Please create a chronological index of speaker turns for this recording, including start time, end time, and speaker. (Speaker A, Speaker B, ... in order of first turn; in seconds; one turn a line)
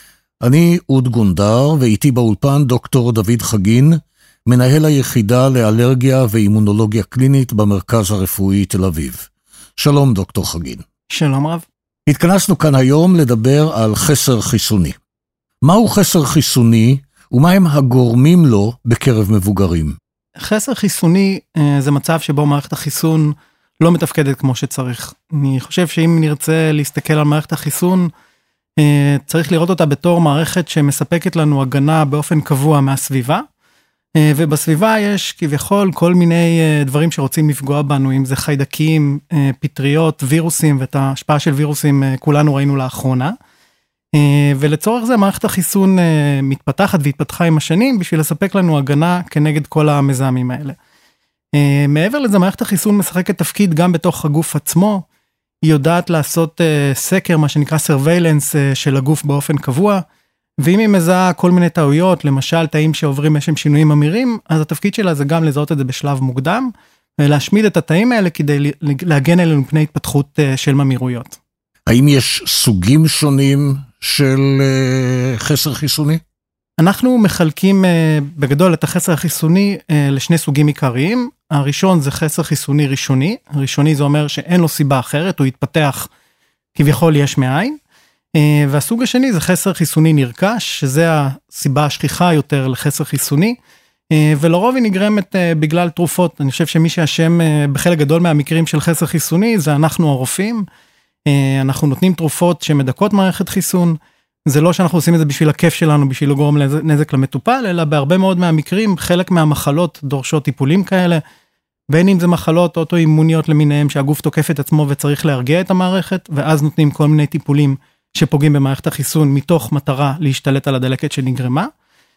Speaker A: 0.4-10.8
Speaker B: 11.1-11.7
Speaker A: 12.1-15.0
Speaker A: 15.6-20.0
Speaker B: 20.4-28.1
Speaker B: 28.8-33.4
Speaker B: 34.2-43.3
Speaker B: 44.1-50.8
Speaker B: 51.5-55.0
Speaker B: 55.6-60.0
Speaker B: 60.6-66.7
Speaker B: 67.2-71.4
Speaker A: 71.9-76.2
Speaker B: 76.8-86.1
Speaker B: 86.8-87.8
Speaker B: 88.3-93.6
Speaker B: 94.1-100.7
Speaker B: 101.3-104.0
Speaker B: 104.5-111.2
Speaker B: 111.9-121.7